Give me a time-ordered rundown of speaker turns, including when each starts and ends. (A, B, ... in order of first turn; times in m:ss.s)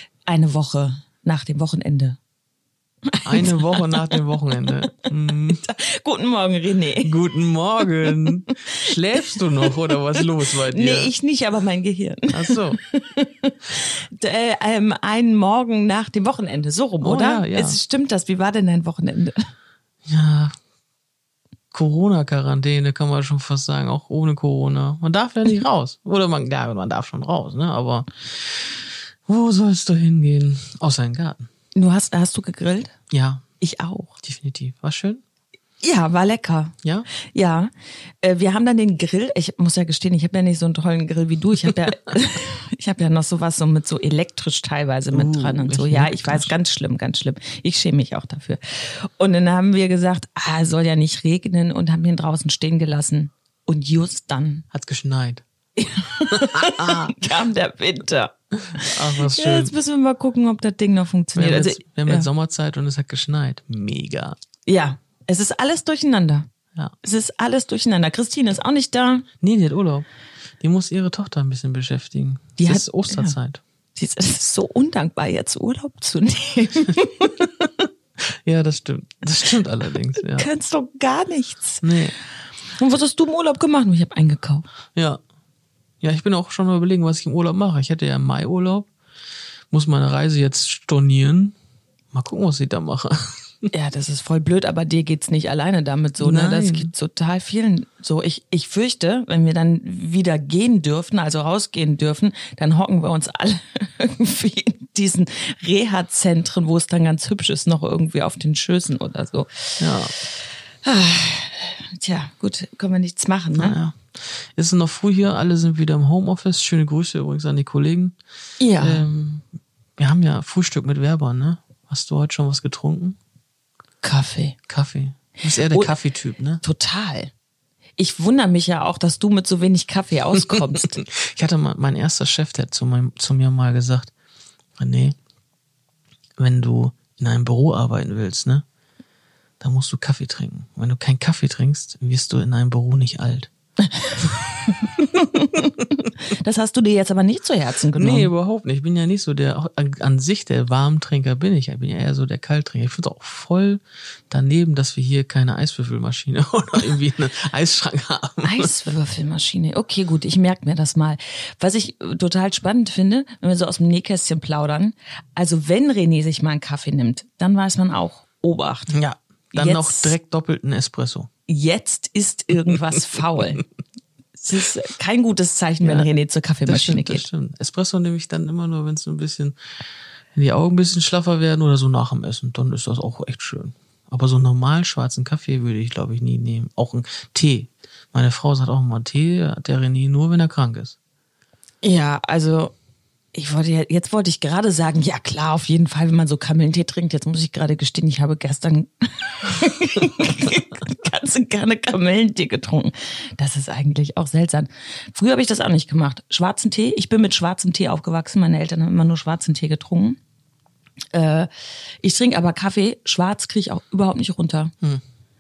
0:00.3-0:02.2 A
0:03.1-0:07.1 A
0:03.2-0:05.6 B
0:07.0-0:11.1 B
0:08.0-0:19.4 A
0:12.3-0:12.8 B
0:17.0-0:17.8 B
0:20.1-0:20.5 B
0:21.7-0:31.5 B
0:31.8-0:32.9 A
0:33.1-0:33.4 B
0:33.6-0:34.1 A
0:34.2-0:35.2 B
0:35.8-0:54.6 A
0:36.8-0:37.1 B
0:45.1-0:46.5 B
0:54.7-0:55.4 B
0:55.8-1:02.3 A
0:56.3-0:57.2 B
0:58.7-0:59.7 B
1:01.4-1:04.4 B
1:04.7-1:06.5 A
1:07.0-1:09.3 A
1:09.4-1:10.1 B
1:10.6-1:13.6 B
1:12.6-1:13.4 A
1:14.0-1:17.8 A
1:18.2-1:20.5 B
1:20.2-1:21.8 A
1:21.8-1:22.2 B
1:22.7-1:24.7 A
1:25.0-1:25.2 B
1:26.0-1:28.9 B
1:29.7-1:31.6 B
1:32.1-1:33.7 B
1:33.7-1:49.8 A
1:36.2-1:36.9 B
1:49.8-1:50.1 B
1:50.8-1:53.8 A
1:53.6-1:58.2 B
1:58.6-1:59.1 A
1:58.8-1:59.5 B
2:00.0-2:03.2 B
2:04.0-2:04.6 A
2:04.7-2:06.6 B
2:05.5-2:06.0 A
2:06.6-2:07.3 A
2:08.0-2:11.0 A
2:11.0-2:14.1 B
2:14.8-2:15.2 B
2:16.4-2:18.6 B
2:19.6-2:23.5 B
2:23.9-2:28.3 A
2:27.9-2:38.7 B
2:38.4-2:48.9 A
2:48.9-2:51.3 B
2:49.5-2:50.2 A
2:51.5-2:53.6 A
2:54.4-2:57.3 A
2:55.8-2:56.1 B
2:56.6-2:59.6 B
3:00.3-3:11.0 B
3:11.8-3:12.7 A
3:13.3-3:30.2 A
3:31.1-3:31.5 A
3:32.0-3:34.7 A